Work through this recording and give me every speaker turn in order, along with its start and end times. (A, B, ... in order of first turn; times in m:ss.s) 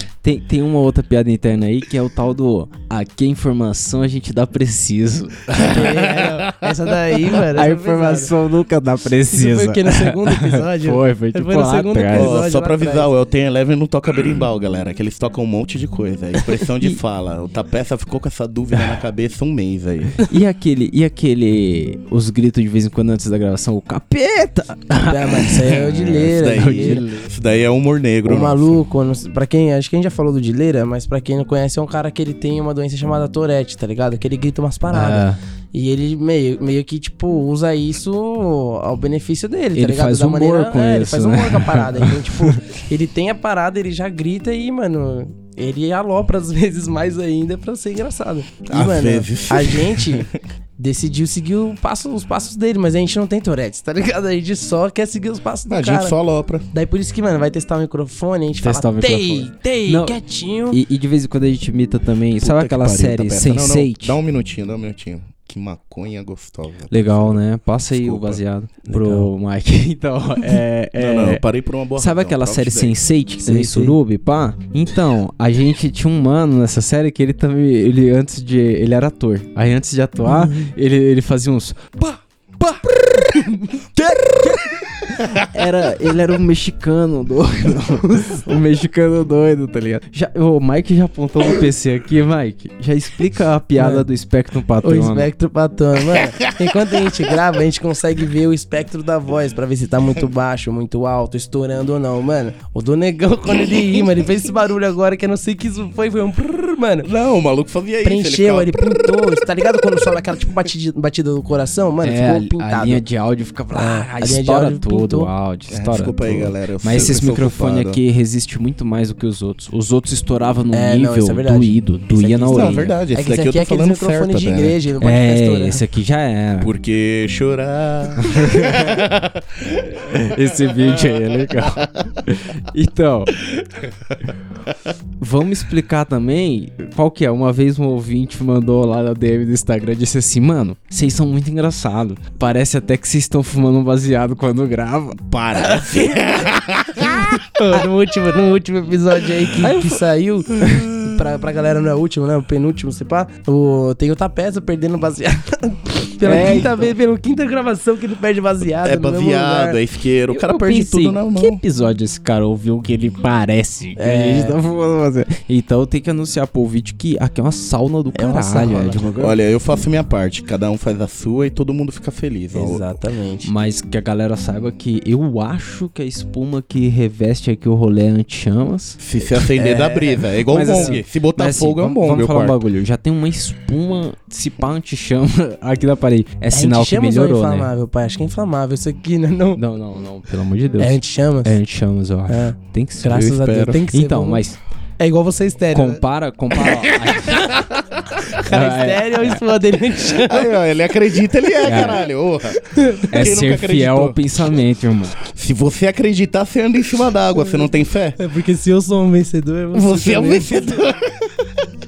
0:00.2-0:05.8 A
0:05.6-0:08.3 B
0:06.2-0:06.5 C
0:07.5-0:12.4 A
0:09.3-0:13.1 B
0:12.1-0:20.2 C
0:20.3-0:25.8 A
0:25.0-0:27.0 B
0:25.8-0:28.8 C
0:26.5-0:27.3 A
0:28.3-0:56.2 B
0:34.9-0:35.4 A
0:39.8-0:42.6 A
0:48.7-0:50.3 C
0:55.7-0:56.6 C
0:56.7-1:00.8 B
0:58.6-1:00.2 A
1:00.7-1:04.2 A
1:02.4-1:08.4 C
1:06.9-1:11.4 A
1:08.9-1:09.3 B
1:11.0-1:13.0 C
1:12.0-1:35.3 A
1:13.4-1:14.0 B
1:28.1-1:28.4 B
1:33.8-1:34.1 B
1:34.8-1:47.1 B
1:43.6-1:44.0 C
1:47.0-1:49.1 C
1:48.0-1:53.0 B
1:52.0-2:02.9 A
1:53.7-1:55.3 B
1:55.7-1:58.0 C
2:00.7-2:05.8 B
2:02.5-2:04.8 C
2:05.0-2:06.7 A
2:06.6-2:11.2 C
2:08.3-2:08.9 A
2:10.3-2:13.4 A
2:15.2-2:25.2 A
2:25.2-2:27.4 C
2:25.6-2:26.3 B
2:27.1-2:39.8 B
2:29.6-2:29.9 A
2:30.6-2:31.2 C
2:36.2-2:36.9 A
2:38.8-2:41.6 C
2:40.3-2:49.3 A
2:44.0-2:44.6 B
2:48.1-2:49.3 B
2:49.2-2:52.9 C
2:52.5-2:53.5 B
2:53.4-2:59.0 A
2:59.0-3:02.6 C
2:59.5-3:01.0 B
3:00.5-3:07.7 A
3:06.5-3:09.6 B
3:09.6-3:14.6 A
3:10.8-3:11.6 B
3:12.3-3:14.4 B
3:15.0-3:16.0 B
3:15.7-3:17.5 A
3:18.4-3:20.5 B
3:18.5-3:19.4 A
3:20.2-3:24.2 C
3:21.6-3:22.0 A
3:22.7-3:23.1 B
3:23.1-3:25.2 A
3:25.3-3:28.2 C
3:27.5-3:30.9 B
3:29.7-3:31.6 C